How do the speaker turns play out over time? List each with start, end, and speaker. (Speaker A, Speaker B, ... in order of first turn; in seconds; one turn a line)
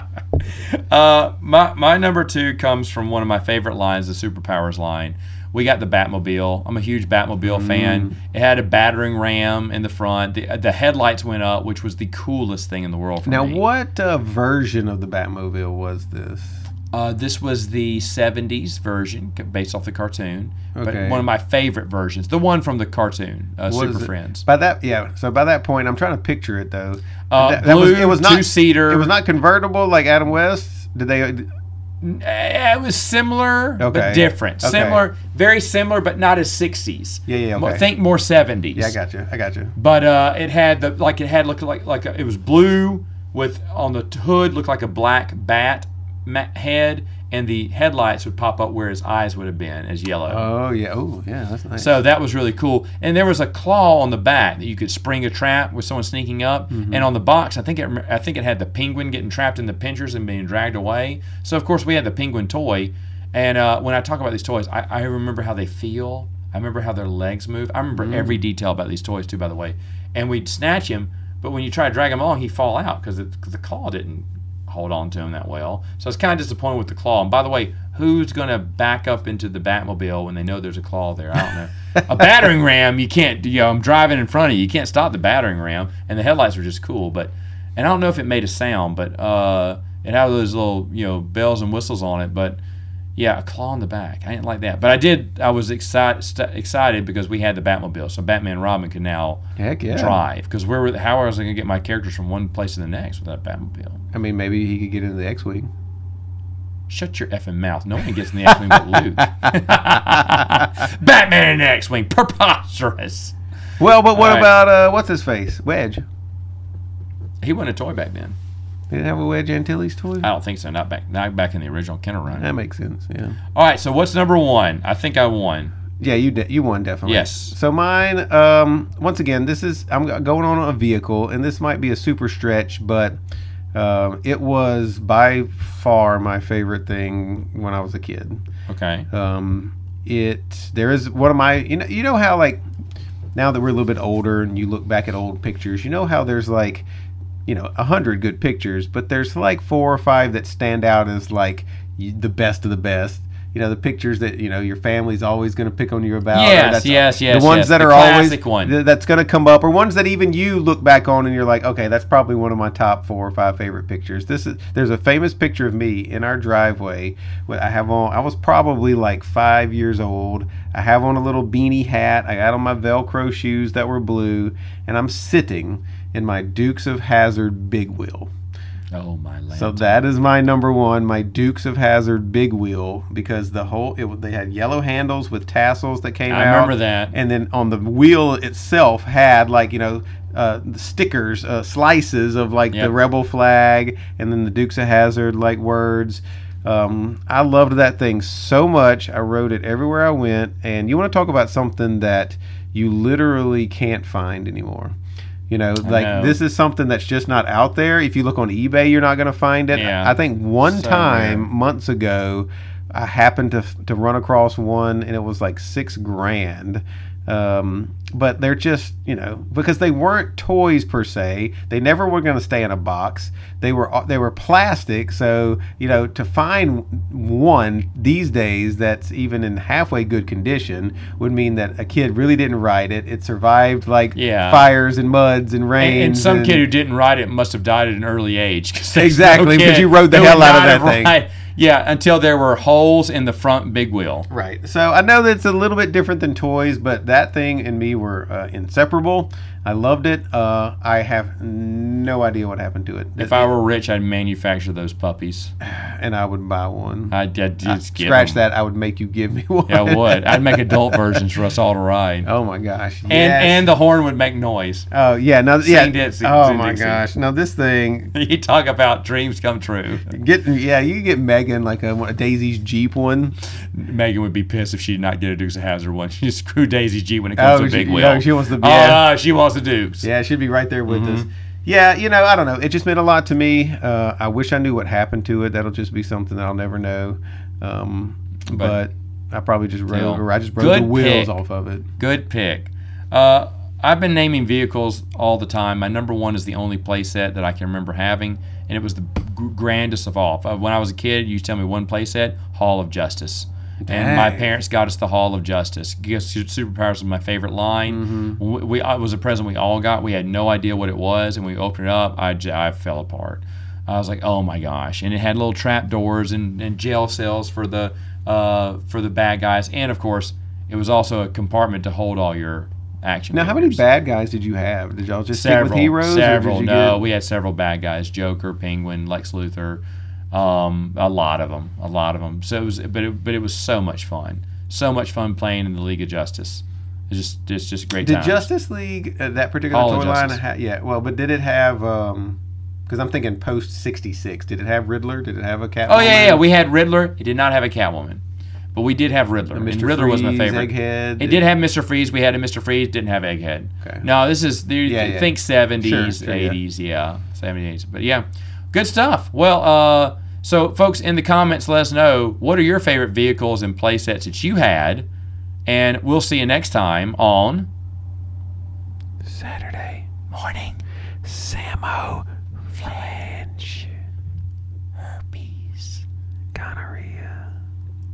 Speaker A: 0.5-13.6
Speaker B: 7.5-8.1
Speaker B: 13.3-16.6
Speaker A: 16.9-24.4
Speaker B: 20.8-21.2
Speaker B: 23.7-31.5
Speaker A: 27.3-29.1
Speaker A: 32.0-39.0
Speaker B: 33.8-35.0
Speaker B: 37.3-37.9
Speaker B: 38.8-39.7
Speaker A: 39.8-50.5
Speaker B: 50.3-52.0
Speaker A: 51.8-92.6
Speaker B: 56.7-57.0
Speaker B: 68.0-68.4
Speaker A: 93.2-99.4
Speaker B: 99.6-100.2
Speaker A: 99.9-104.0
Speaker B: 104.1-105.7
Speaker A: 106.9-113.3
Speaker B: 108.5-109.5
Speaker B: 110.4-110.6
Speaker B: 113.8-116.0
Speaker A: 114.2-114.5
Speaker A: 117.4-118.4
Speaker B: 118.9-120.3
Speaker A: 120.2-122.5
Speaker B: 122.3-123.4
Speaker A: 123.5-125.7
Speaker B: 126.0-133.1
Speaker A: 127.1-127.5
Speaker B: 133.7-138.4
Speaker A: 138.7-139.1
Speaker B: 139.1-142.6
Speaker B: 143.3-146.8
Speaker B: 147.5-178.3
Speaker A: 156.3-158.7
Speaker A: 178.9-179.9
Speaker B: 179.5-205.0
Speaker A: 186.3-187.1
Speaker B: 205.5-236.6
Speaker A: 205.8-206.4
Speaker A: 209.7-211.5
Speaker A: 234.2-234.7
Speaker A: 235.8-244.3
Speaker B: 238.9-241.1
Speaker B: 244.3-253.5
Speaker A: 253.2-255.5
Speaker B: 255.6-261.2
Speaker A: 257.1-258.4
Speaker A: 259.7-262.3
Speaker B: 262.3-263.7
Speaker A: 263.1-264.9
Speaker B: 264.9-268.1
Speaker A: 265.6-267.0
Speaker A: 268.1-270.1
Speaker B: 270.1-273.4
Speaker A: 273.7-280.1
Speaker B: 277.4-279.0
Speaker B: 280.0-291.9
Speaker A: 280.9-281.3
Speaker A: 288.5-288.8
Speaker A: 289.9-291.4
Speaker A: 292.0-323.8
Speaker B: 303.8-304.5
Speaker B: 307.9-308.4
Speaker B: 323.3-327.0
Speaker A: 325.3-338.5
Speaker B: 338.0-346.4
Speaker A: 339.7-340.4
Speaker A: 345.9-348.2
Speaker A: 348.7-365.1
Speaker B: 349.5-351.4
Speaker B: 354.9-356.6
Speaker A: 365.7-367.7
Speaker B: 369.2-370.1
Speaker A: 370.3-370.8
Speaker B: 371.2-373.9
Speaker A: 375.0-376.0
Speaker B: 376.5-377.5